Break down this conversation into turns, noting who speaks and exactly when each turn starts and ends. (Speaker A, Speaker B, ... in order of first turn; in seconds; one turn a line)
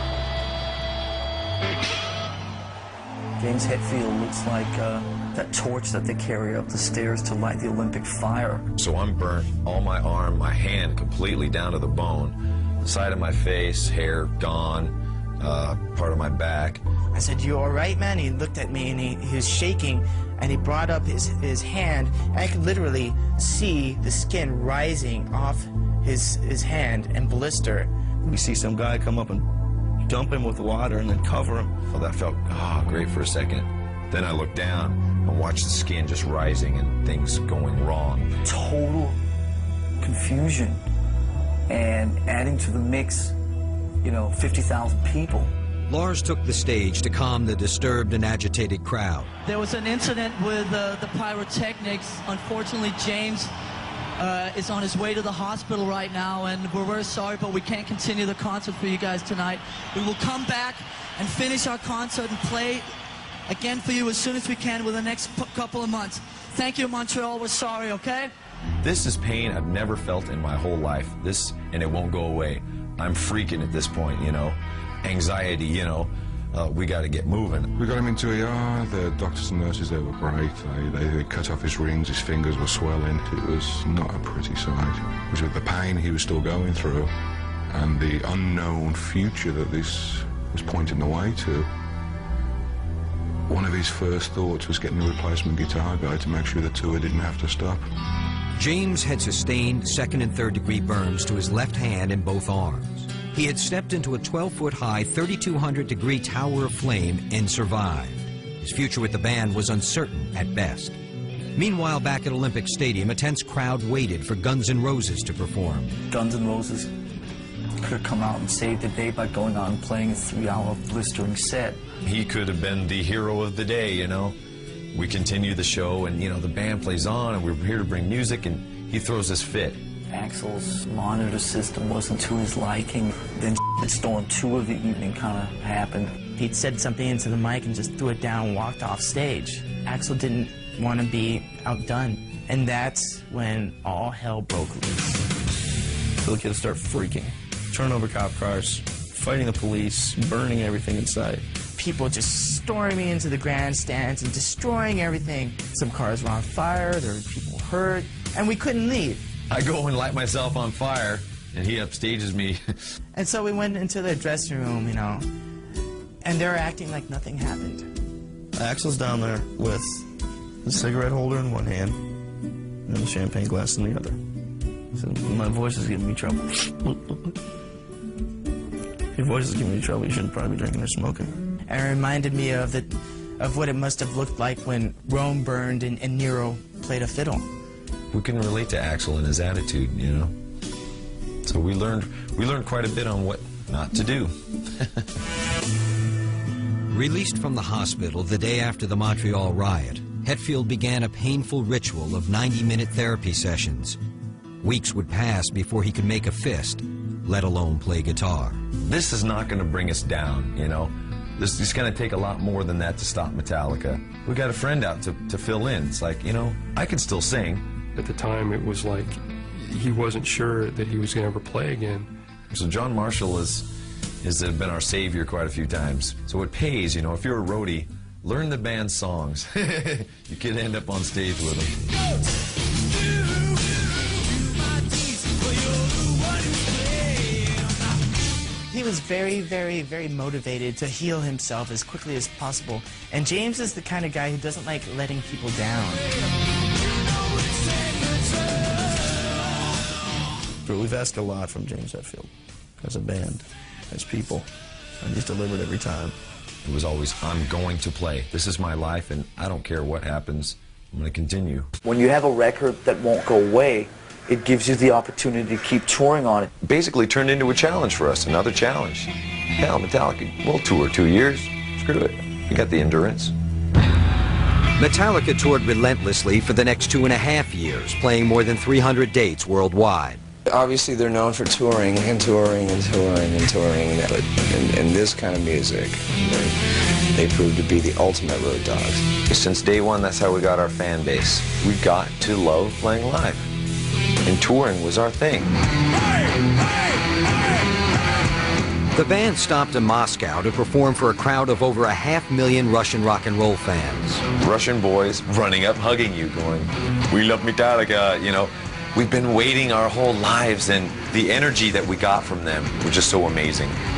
Speaker A: 3.4-8.7
Speaker B: 8.8-16.8
Speaker C: 17.1-27.9
Speaker D: 28.2-29.4
Speaker D: 30.0-31.7
Speaker B: 31.9-38.3
Speaker A: 38.4-39.2
Speaker A: 40.0-40.8
Speaker A: 41.7-43.3
Speaker A: 44.0-45.5
Speaker E: 45.9-49.3
Speaker F: 49.4-53.5
Speaker F: 54.2-62.9
Speaker F: 63.5-68.3
Speaker B: 68.8-77.7
Speaker G: 77.8-87.1
Speaker G: 87.7-91.7
Speaker G: 93.5-97.9
Speaker E: 98.6-111.0
Speaker E: 111.5-116.0
Speaker A: 116.1-116.9
Speaker A: 117.8-121.8
Speaker B: 122.0-124.3
Speaker B: 124.9-129.8
Speaker A: 130.1-136.2
Speaker C: 136.3-145.2
Speaker D: 146.2-151.4
Speaker C: 151.8-159.2
Speaker B: 159.5-162.6
Speaker C: 163.1-165.3
Speaker C: 166.2-167.9
Speaker D: 168.5-170.1
Speaker D: 170.6-172.0
Speaker D: 172.9-174.2
Speaker D: 174.9-177.3
Speaker D: 179.1-181.3
Speaker C: 181.7-187.5
Speaker B: 188.1-190.3
Speaker B: 191.4-195.0
Speaker E: 196.9-204.0
Speaker E: 204.6-208.6
Speaker B: 208.8-217.6
Speaker H: 217.9-222.1
Speaker B: 222.5-223.7
Speaker B: 224.2-231.8
Speaker C: 238.7-246.1
Speaker D: 250.6-254.5
Speaker D: 255.0-256.1
Speaker B: 256.6-261.7
Speaker A: 261.8-266.5
Speaker B: 266.6-273.3
Speaker E: 274.8-280.2
Speaker I: 280.5-286.5
Speaker I: 287.1-289.1
Speaker B: 289.3-293.4
Speaker B: 294.2-295.5
Speaker E: 298.9-304.2
Speaker B: 304.4-313.8